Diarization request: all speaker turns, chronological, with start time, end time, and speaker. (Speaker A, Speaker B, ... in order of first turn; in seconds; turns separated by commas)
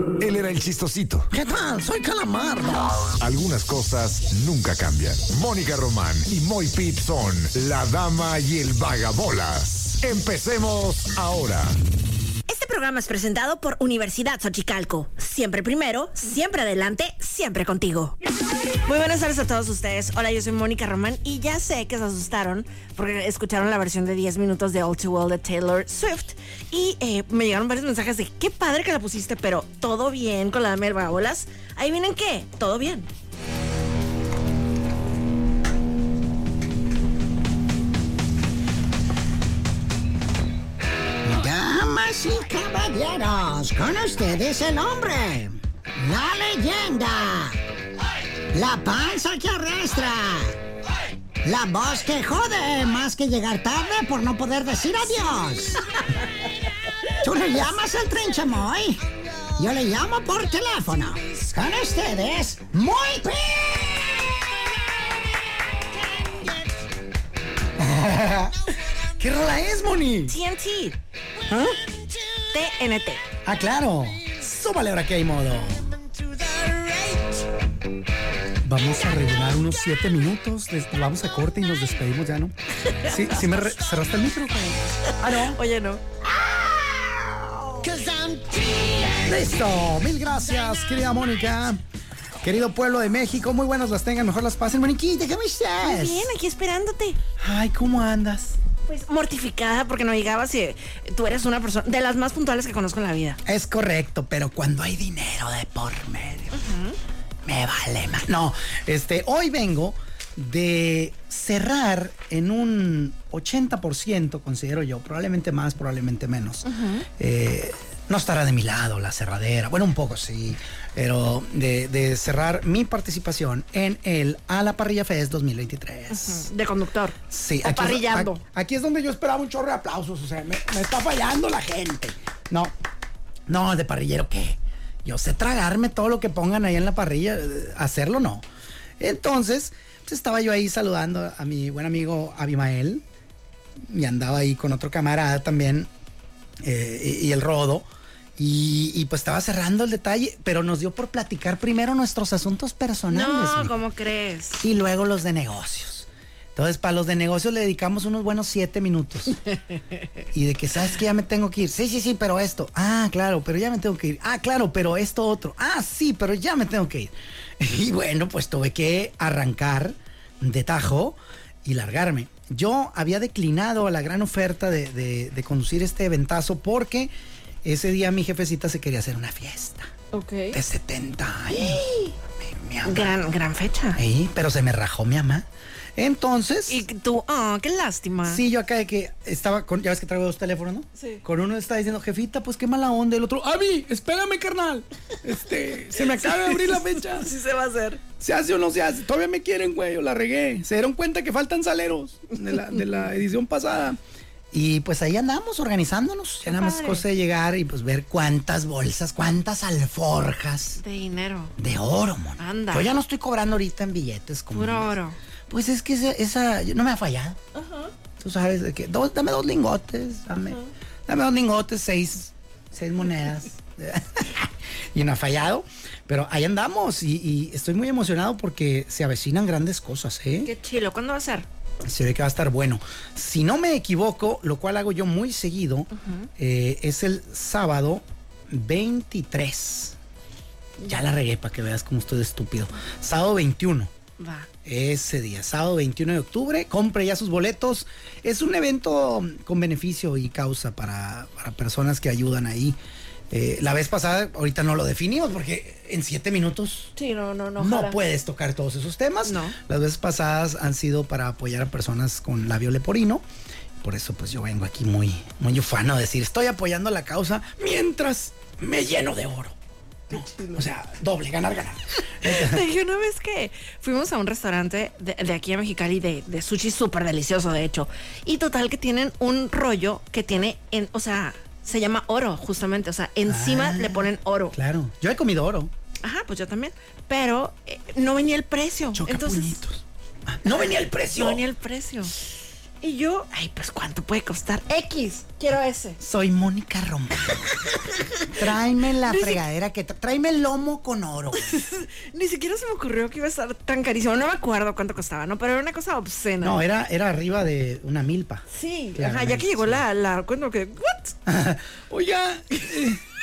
Speaker A: 0.2-1.3, Speaker B: 1.3-2.9, Speaker A: 3.1-11.8, Speaker C: 12.5-18.2, Speaker C: 18.8-33.1, Speaker D: 41.2-47.6, Speaker D: 48.5-50.6, Speaker D: 51.4-56.0, Speaker D: 57.1-64.4, Speaker D: 66.0-66.5, Speaker B: 67.8-70.4, Speaker C: 70.3-71.0, Speaker B: 71.5-71.8, Speaker C: 72.5-73.2, Speaker B: 73.4-75.9, Speaker B: 78.6-85.6, Speaker C: 85.3-86.0, Speaker B: 89.2-91.8, Speaker B: 92.4-96.3, Speaker C: 95.8-97.2, Speaker B: 97.4-98.6, Speaker C: 98.9-103.4, Speaker B: 103.5-106.6, Speaker C: 106.5-107.0, Speaker B: 107.5-126.5, Speaker C: 116.7-117.1, Speaker C: 126.1-128.4, Speaker B: 127.3-132.7, Speaker B: 133.5-138.4, Speaker B: 139.0-143.0, Speaker B: 143.9-145.9, Speaker B: 146.6-147.9, Speaker B: 148.4-153.8, Speaker C: 153.1-154.6, Speaker B: 154.6-159.4, Speaker B: 160.3-177.1, Speaker B: 177.6-179.9, Speaker C: 180.1-180.6, Speaker B: 180.5-183.2, Speaker C: 181.5-182.1, Speaker C: 182.8-184.0, Speaker B: 184.0-186.8, Speaker C: 186.7-188.4, Speaker B: 188.2-197.3, Speaker C: 191.0-191.2, Speaker C: 196.2-198.0, Speaker B: 198.2-204.0, Speaker B: 204.5-210.8, Speaker C: 206.5-207.0, Speaker C: 210.8-211.5, Speaker B: 211.6-214.9, Speaker C: 212.4-212.9, Speaker C: 214.5-215.2, Speaker B: 215.5-217.4, Speaker C: 217.6-217.9, Speaker B: 218.2-230.5, Speaker C: 230.4-231.5, Speaker B: 231.8-240.0, Speaker C: 236.0-236.3, Speaker B: 240.8-243.9, Speaker C: 244.2-244.5, Speaker B: 244.7-252.8, Speaker B: 253.3-256.9, Speaker C: 256.9-258.0, Speaker B: 257.6-263.2, Speaker C: 259.2-259.6, Speaker B: 263.8-269.6, Speaker B: 270.1-272.6, Speaker C: 272.2-284.6, Speaker B: 283.3-285.7, Speaker C: 286.0-289.6, Speaker B: 288.9-291.4, Speaker C: 291.2-292.1, Speaker C: 292.8-296.0, Speaker B: 296.0-297.6, Speaker B: 298.2-301.6, Speaker C: 299.1-299.4, Speaker C: 301.4-306.6, Speaker B: 306.4-309.8, Speaker C: 308.5-311.1, Speaker B: 311.3-313.0